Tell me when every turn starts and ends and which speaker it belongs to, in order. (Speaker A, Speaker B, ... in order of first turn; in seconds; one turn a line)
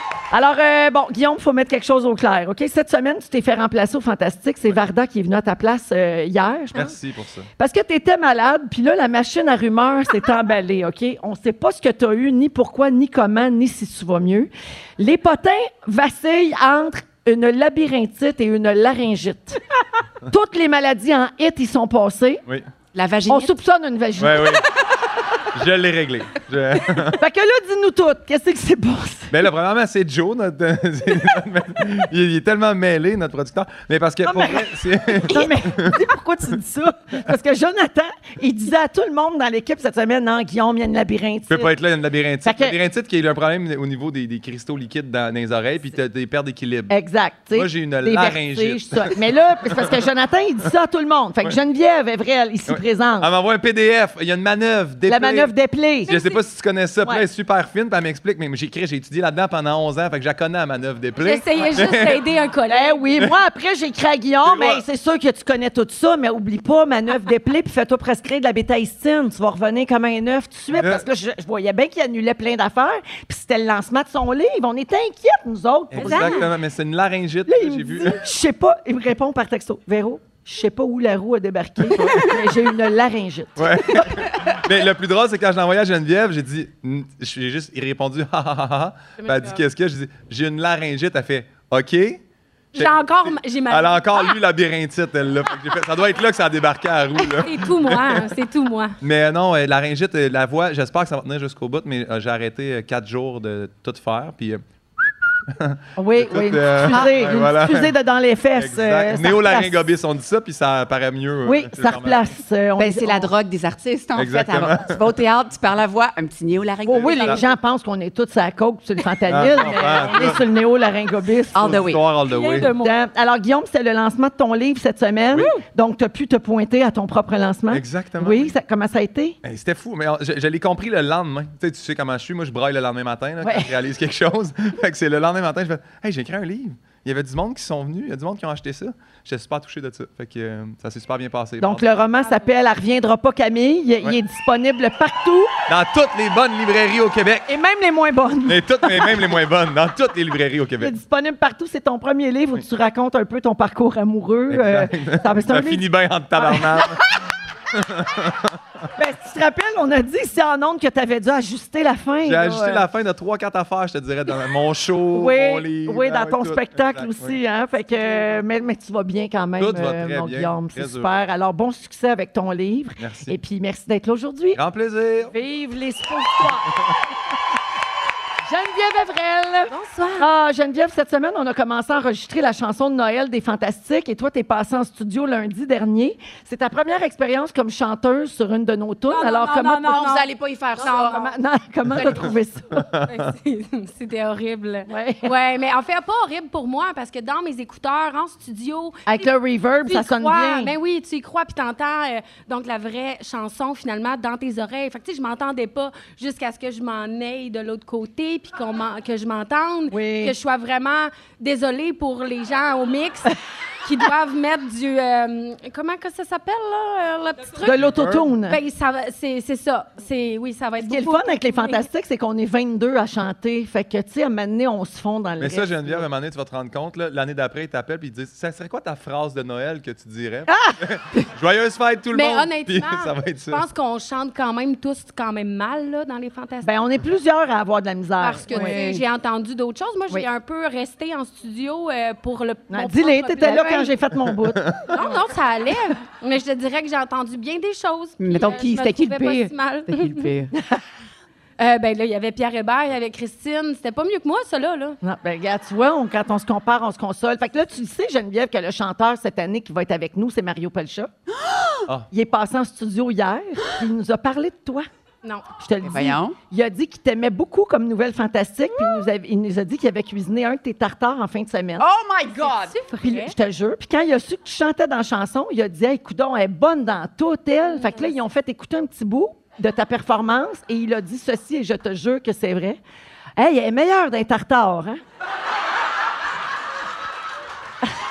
Speaker A: 0.3-6.9
Speaker B: 6.7-7.5
Speaker A: 7.6-19.6
Speaker A: 20.3-22.4
Speaker C: 22.9-23.5
Speaker A: 23.3-24.6
Speaker B: 24.2-24.6
Speaker B: 25.5-27.2
Speaker A: 27.1-29.3
Speaker B: 29.3-36.0
Speaker A: 34.2-41.7
Speaker B: 41.5-46.9
Speaker A: 42.4-42.8
Speaker A: 46.9-53.3
Speaker B: 47.5-49.1
Speaker B: 52.7-55.5
Speaker A: 55.1-56.3
Speaker B: 56.1-62.2
Speaker D: 61.2-63.0
Speaker A: 62.7-76.5
Speaker B: 64.4-64.8
Speaker B: 70.7-71.0
Speaker B: 75.9-78.3
Speaker D: 76.0-76.5
Speaker A: 77.5-84.2
Speaker B: 81.9-82.3
Speaker B: 83.6-92.2
Speaker D: 89.2-89.6
Speaker B: 92.7-98.3
Speaker D: 92.7-94.4
Speaker D: 97.4-98.9
Speaker B: 99.0-104.6
Speaker B: 105.5-107.9
Speaker A: 106.0-109.8
Speaker B: 108.5-112.3
Speaker A: 111.4-113.3
Speaker C: 112.8-117.4
Speaker B: 114.2-115.0
Speaker B: 116.9-117.3
Speaker A: 116.9-121.8
Speaker B: 119.3-120.4
Speaker C: 121.5-122.0
Speaker B: 121.6-122.7
Speaker D: 122.3-122.9
Speaker A: 122.6-129.4
Speaker B: 127.7-128.5
Speaker B: 129.4-141.9
Speaker A: 133.4-133.7
Speaker A: 141.6-145.5
Speaker D: 142.2-142.5
Speaker B: 145.7-147.5
Speaker A: 147.5-149.2
Speaker B: 148.4-150.9
Speaker A: 150.8-155.8
Speaker B: 154.5-157.0
Speaker A: 156.4-156.9
Speaker B: 157.7-158.6
Speaker A: 159.0-162.8
Speaker B: 162.2-167.4
Speaker A: 165.1-174.6
Speaker D: 168.0-168.3
Speaker B: 169.6-171.1
Speaker B: 173.0-173.3
Speaker B: 174.5-175.3
Speaker A: 175.3-176.8
Speaker A: 178.5-189.9
Speaker D: 179.7-180.2
Speaker D: 189.1-190.2
Speaker C: 189.9-191.2
Speaker D: 190.8-191.3
Speaker A: 190.8-192.8
Speaker D: 191.9-192.2
Speaker D: 193.0-199.3
Speaker A: 194.9-195.3
Speaker A: 199.1-200.7
Speaker D: 199.8-217.8
Speaker A: 209.9-210.3
Speaker B: 217.6-218.3
Speaker A: 217.6-218.6
Speaker D: 218.5-221.8
Speaker A: 220.8-226.0
Speaker B: 225.4-233.6
Speaker A: 230.5-230.8
Speaker D: 232.1-236.7
Speaker A: 236.6-238.8
Speaker D: 238.2-243.9
Speaker C: 238.5-239.0
Speaker A: 242.7-245.2
Speaker B: 244.3-244.8
Speaker D: 244.9-250.3
Speaker C: 248.2-250.5
Speaker D: 251.6-255.0
Speaker A: 255.0-261.1
Speaker C: 261.3-261.8
Speaker A: 262.1-264.9
Speaker A: 265.6-271.8
Speaker C: 265.8-266.4
Speaker C: 271.8-272.8
Speaker D: 272.4-273.3
Speaker A: 273.0-282.8
Speaker D: 277.7-278.1
Speaker A: 283.4-285.0